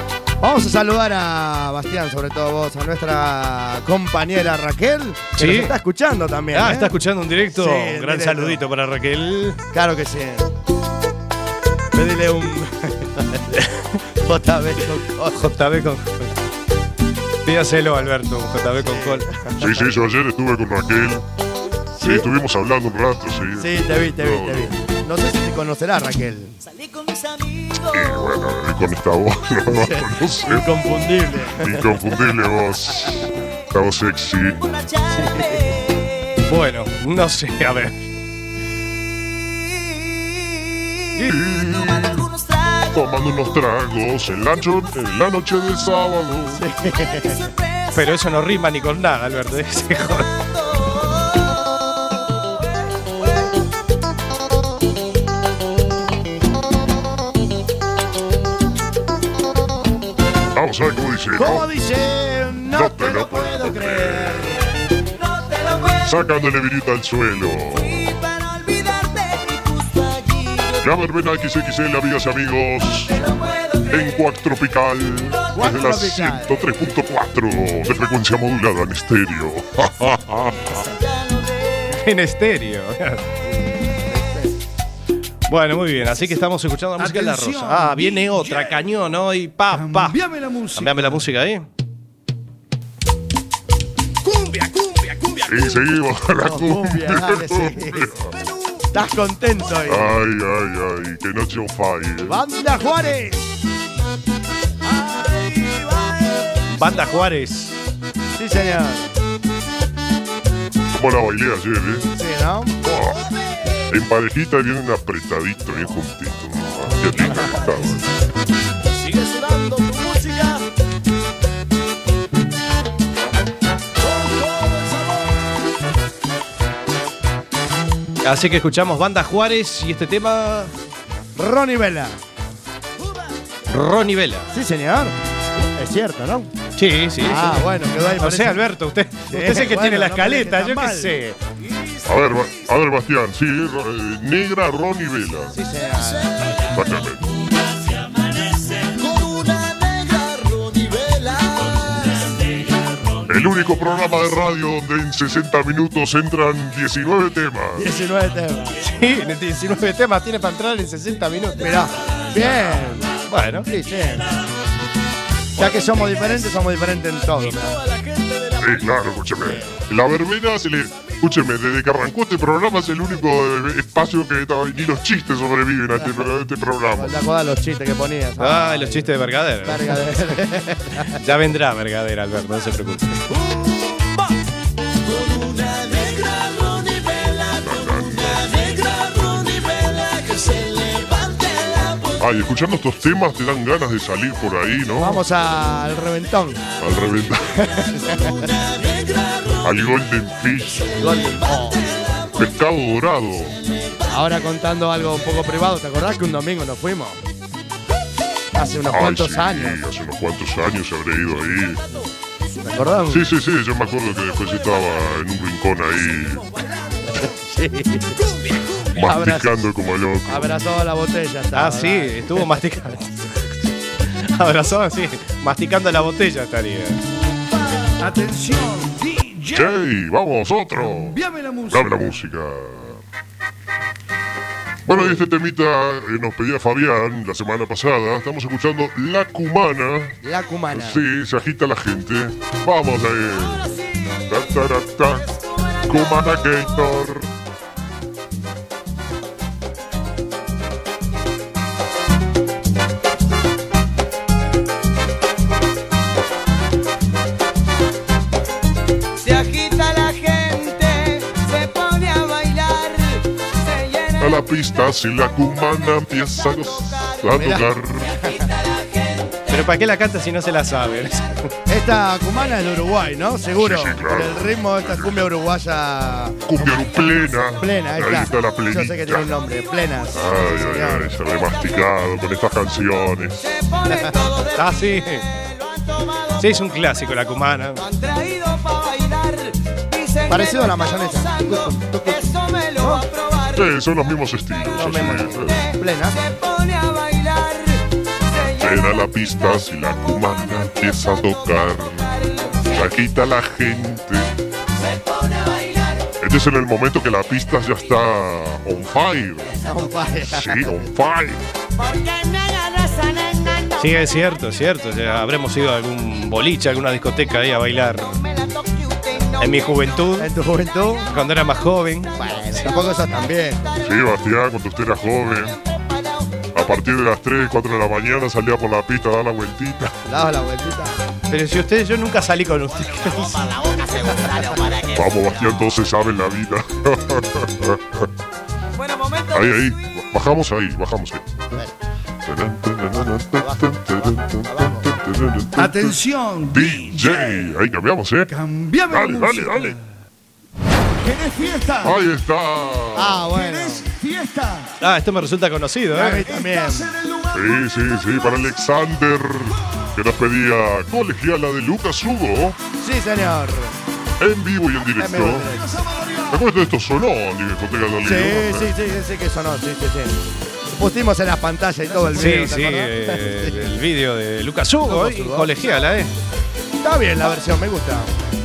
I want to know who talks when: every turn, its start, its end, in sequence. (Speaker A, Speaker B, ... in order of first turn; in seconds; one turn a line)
Speaker A: 0.4-7.0
Speaker B: 5.4-5.7
Speaker B: 6.5-9.6
Speaker A: 7.5-8.6
Speaker A: 9.7-10.5
Speaker A: 11.9-13.6
Speaker A: 14.2-15.6
Speaker B: 15.3-16.3
Speaker B: 17.4-19.3
Speaker A: 18.8-19.9
Speaker C: 19.6-21.2
Speaker A: 22.0-22.3
Speaker C: 22.0-24.7
Speaker A: 23.6-26.6
Speaker D: 26.8-28.0
Speaker C: 27.9-30.7
Speaker A: 29.7-32.1
Speaker C: 31.6-34.6
Speaker D: 34.6-35.9
Speaker A: 35.2-35.5
Speaker B: 36.4-38.0
Speaker C: 41.2-42.3
Speaker D: 42.0-43.0
Speaker C: 43.0-46.6
Speaker A: 46.5-47.4
Speaker B: 47.9-50.3
Speaker D: 50.3-51.2
Speaker C: 60.5-61.7
Speaker A: 61.4-64.6
Speaker C: 62.7-64.6
Speaker C: 66.0-68.1
Speaker D: 68.0-70.8
Speaker C: 70.8-73.1
Speaker C: 73.9-80.9
Speaker A: 75.5-76.8
Speaker D: 80.8-81.8
Speaker B: 81.9-83.2
Speaker A: 83.4-84.5
Speaker B: 85.5-90.2
Speaker E: 87.0-88.8
Speaker E: 89.7-91.2
Speaker B: 90.8-91.7
Speaker C: 95.4-98.3
Speaker A: 96.4-98.1
Speaker A: 98.9-100.2
Speaker C: 99.9-102.4
Speaker A: 102.2-103.5
Speaker B: 106.7-107.8
Speaker A: 108.3-109.2
Speaker C: 110.9-112.1
Speaker A: 112.2-112.8
Speaker C: 112.8-113.2
Speaker C: 113.9-118.1
Speaker A: 117.2-117.6
Speaker E: 124.0-125.3
Speaker B: 128.2-130.7
Speaker A: 131.3-132.2
Speaker B: 133.7-134.5
Speaker A: 134.5-135.2
Speaker A: 135.8-136.5
Speaker B: 136.8-141.4
Speaker A: 137.2-138.7
Speaker A: 139.3-141.2
Speaker C: 142.1-145.6
Speaker A: 145.5-146.3
Speaker C: 146.7-147.4
Speaker D: 150.1-151.8
Speaker C: 153.3-157.9
Speaker A: 157.8-158.8
Speaker B: 158.8-161.9
Speaker A: 161.6-163.1
Speaker B: 163.3-163.7
Speaker A: 163.7-164.3
Speaker A: 165.6-167.8
Speaker C: 168.6-177.1
Speaker A: 169.4-169.7
Speaker A: 176.0-176.3
Speaker A: 176.9-181.2
Speaker B: 178.4-180.4
Speaker B: 181.1-183.2
Speaker C: 187.6-188.6
Speaker C: 192.2-195.2
Speaker A: 195.0-196.6
Speaker C: 196.8-197.7
Speaker D: 198.1-199.4
Speaker C: 199.6-201.4
Speaker A: 200.9-201.9
Speaker D: 201.9-202.2
Speaker C: 202.3-203.6
Speaker A: 204.1-207.2
Speaker A: 208.5-209.8
Speaker C: 208.9-211.8
Speaker A: 212.6-213.3
Speaker C: 213.1-216.5
Speaker A: 217.1-218.2
Speaker C: 218.9-220.5
Speaker A: 219.0-219.5
Speaker A: 220.3-222.5
Speaker B: 221.5-227.0
Speaker E: 228.0-229.8
Speaker C: 229.5-231.2
Speaker E: 230.7-232.2
Speaker C: 231.7-233.0
Speaker C: 234.9-240.2
Speaker A: 234.9-235.2
Speaker A: 240.2-241.0
Speaker C: 240.7-245.3
Speaker C: 245.8-247.3
Speaker D: 259.2-264.3
Speaker C: 264.2-268.2
Speaker D: 266.8-267.2
Speaker A: 267.3-267.7
Speaker B: 269.5-271.5
Speaker A: 271.7-276.4
Speaker C: 273.6-275.3
Speaker C: 276.5-279.3
Speaker A: 277.6-281.2
Speaker C: 280.1-283.5
Speaker D: 283.7-284.6
Speaker B: 284.6-285.3
Speaker D: 285.4-286.4
Speaker B: 286.4-287.9
Speaker D: 287.8-290.4
Speaker A: 290.3-293.1
Speaker D: 291.1-291.4
Speaker D: 292.2-293.6
Speaker C: 293.6-295.7
Speaker A: 294.8-296.2
Speaker D: 296.2-298.6
Speaker C: 298.6-304.3
Speaker D: 305.3-305.8
Speaker C: 306.2-309.6
Speaker A: 309.6-310.9
Speaker C: 310.2-311.5
Speaker D: 311.8-313.9
Speaker B: 313.8-318.2
Speaker D: 317.8-320.0
Speaker B: 319.4-320.3
Speaker A: 320.2-321.1
Speaker D: 320.8-321.1
Speaker B: 321.1-322.6
Speaker D: 322.1-324.0
Speaker A: 322.2-323.8
Speaker C: 323.8-325.6
Speaker D: 325.4-326.5
Speaker C: 326.5-329.9
Speaker A: 330.1-331.0
Speaker B: 331.3-333.6
Speaker D: 333.4-335.0
Speaker C: 334.9-338.1
Speaker C: 339.3-341.6
Speaker C: 342.2-346.0
Speaker A: 342.9-344.9
Speaker E: 345.6-347.5
Speaker C: 346.5-348.3
Speaker E: 348.3-349.8
Speaker C: 348.9-349.8
Speaker E: 351.0-352.0
Speaker C: 351.8-353.3
Speaker A: 352.9-353.9
Speaker E: 353.3-354.7
Speaker B: 354.8-356.3
Speaker A: 355.9-356.9
Speaker E: 356.2-357.6
Speaker C: 357.3-362.6
Speaker A: 362.8-363.8
Speaker C: 364.2-365.5
Speaker A: 365.0-365.8
Speaker E: 365.4-366.4
Speaker C: 366.3-368.7
Speaker A: 368.0-373.7
Speaker B: 372.1-376.1
Speaker A: 374.8-375.5
Speaker A: 376.8-378.2